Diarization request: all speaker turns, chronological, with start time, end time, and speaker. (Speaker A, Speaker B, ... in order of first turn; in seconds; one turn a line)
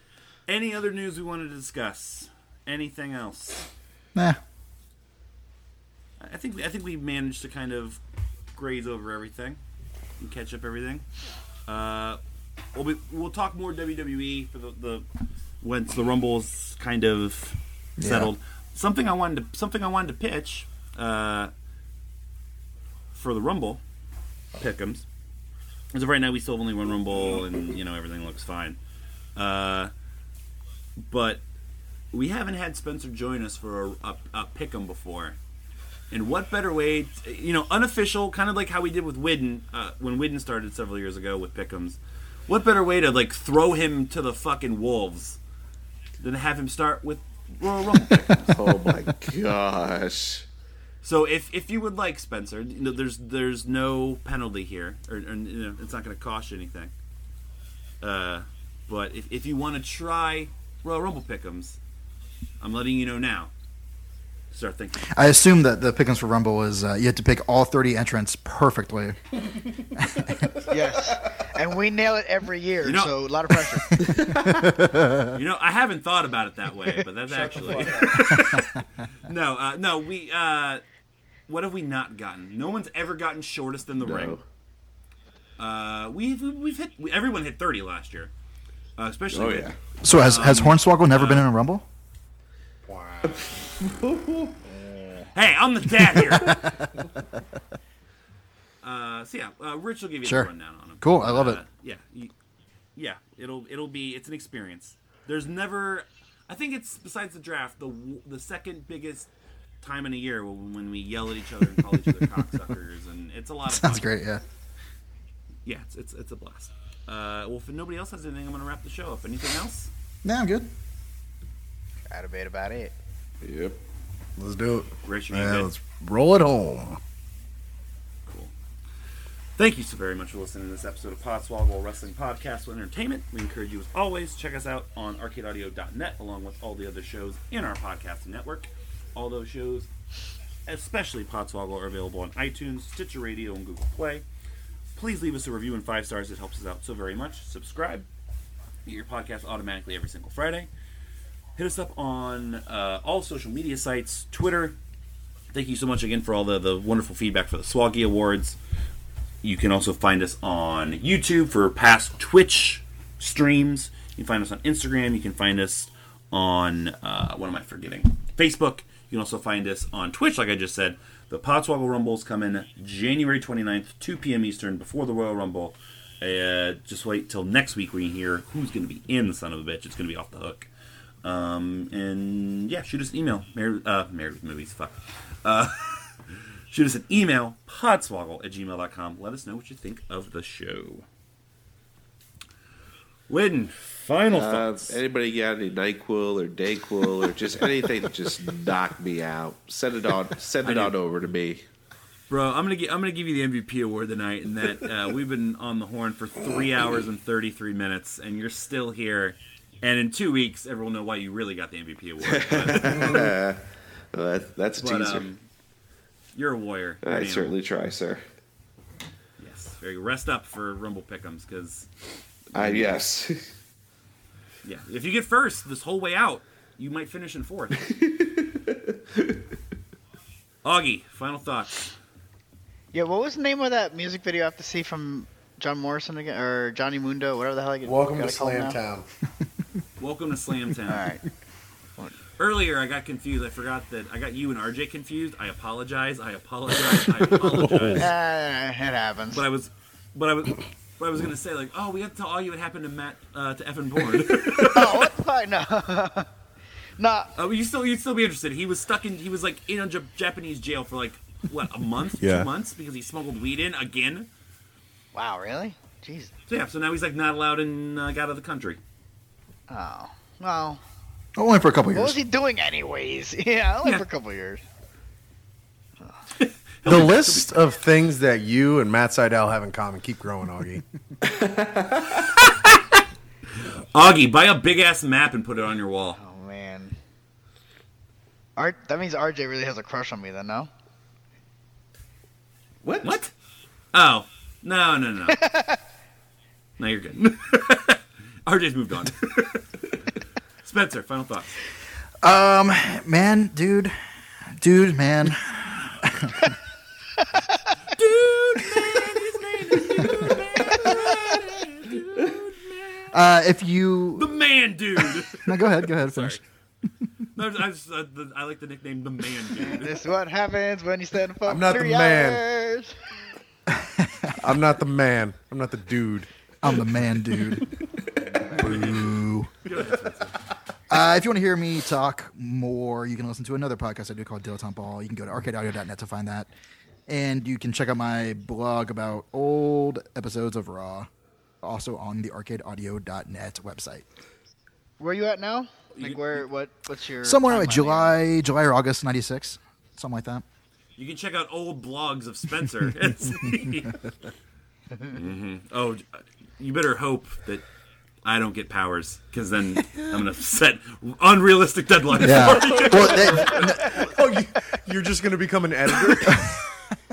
Speaker A: 0.5-3.7
Speaker A: 6.2-8.0
Speaker A: 8.5-9.6
Speaker A: 10.2-11.0
Speaker A: 11.7-12.2
Speaker A: 12.7-15.0
Speaker A: 15.6-21.5
Speaker B: 18.0-18.3
Speaker A: 23.1-23.8
Speaker A: 24.6-25.0
Speaker A: 25.9-28.8
Speaker A: 29.4-29.9
Speaker A: 31.0-31.4
Speaker A: 32.1-35.4
Speaker A: 36.1-45.4
Speaker A: 46.2-48.6
Speaker C: 48.5-50.5
Speaker A: 51.0-56.9
Speaker A: 58.0-61.8
Speaker A: 62.6-63.5
Speaker A: 64.5-65.1
Speaker B: 65.0-69.2
Speaker B: 70.0-70.4
Speaker D: 70.7-74.0
Speaker A: 72.8-73.2
Speaker B: 74.5-75.3
Speaker A: 75.3-80.8
Speaker E: 77.3-78.4
Speaker A: 81.5-84.4
Speaker C: 84.0-84.4
Speaker A: 85.6-88.3
Speaker A: 89.0-91.5
Speaker C: 89.3-89.7
Speaker B: 90.0-91.8
Speaker E: 92.8-93.4
Speaker C: 93.2-94.5
Speaker A: 95.3-96.7
Speaker B: 96.3-96.8
Speaker A: 98.8-102.3
Speaker B: 100.2-100.5
Speaker B: 101.0-101.6
Speaker A: 103.0-109.3
Speaker A: 109.8-114.1
Speaker B: 113.7-114.4
Speaker A: 115.7-119.9
Speaker B: 120.2-120.7
Speaker D: 122.1-122.9
Speaker C: 123.4-123.8
Speaker E: 124.4-127.0
Speaker A: 125.0-125.7
Speaker A: 128.3-128.5
Speaker A: 129.6-139.9
Speaker A: 140.7-144.2
Speaker A: 144.9-148.1
Speaker A: 148.8-150.7
Speaker A: 151.6-154.8
Speaker A: 155.5-158.6
Speaker A: 159.4-180.7
Speaker A: 181.2-186.2
Speaker A: 186.7-191.1
Speaker A: 193.3-195.0
Speaker C: 194.3-201.6
Speaker A: 200.6-200.9
Speaker A: 202.3-213.3
Speaker C: 212.3-213.6
Speaker C: 214.1-215.3
Speaker A: 214.7-215.4
Speaker A: 216.3-217.6
Speaker C: 217.0-218.2
Speaker A: 219.4-221.9
Speaker A: 222.5-223.0
Speaker C: 222.5-223.4
Speaker A: 224.6-227.9
Speaker C: 228.0-229.4
Speaker A: 230.6-231.9
Speaker D: 232.9-238.8
Speaker E: 237.8-239.1
Speaker A: 240.0-241.1
Speaker D: 240.9-241.2
Speaker A: 242.4-248.1
Speaker E: 247.5-248.0
Speaker D: 248.0-249.4
Speaker A: 249.3-255.1
Speaker D: 254.6-256.3
Speaker D: 257.0-257.3
Speaker A: 257.3-264.3
Speaker E: 262.2-262.5
Speaker D: 265.1-266.3
Speaker A: 266.5-268.8
Speaker D: 269.7-270.8
Speaker B: 271.4-272.2
Speaker D: 271.9-274.6
Speaker A: 276.4-277.6
Speaker E: 276.8-280.8
Speaker C: 281.2-282.3
Speaker A: 282.3-283.0
Speaker A: 283.9-286.2
Speaker D: 286.1-286.9
Speaker D: 288.6-290.7
Speaker C: 292.8-293.1
Speaker A: 293.0-293.3
Speaker A: 293.9-295.5
Speaker D: 295.4-295.8
Speaker A: 296.8-299.6
Speaker A: 300.6-301.6
Speaker B: 302.2-303.9
Speaker B: 304.6-306.6
Speaker A: 307.9-313.2
Speaker B: 313.1-314.3
Speaker A: 314.1-316.4
Speaker B: 315.3-316.4
Speaker A: 317.4-320.0
Speaker D: 319.6-323.0
Speaker E: 321.4-322.4
Speaker B: 323.7-324.3
Speaker E: 324.4-326.3
Speaker B: 326.6-327.6
Speaker A: 328.3-329.0
Speaker B: 328.6-329.5
Speaker A: 329.6-330.4
Speaker B: 330.9-336.5
Speaker B: 337.1-341.1
Speaker B: 341.6-344.0
Speaker D: 345.0-348.2
Speaker A: 345.9-346.4
Speaker B: 347.2-350.4
Speaker A: 351.0-354.0
Speaker A: 355.1-357.6
Speaker A: 358.2-364.1
Speaker B: 362.1-364.1
Speaker E: 363.5-366.5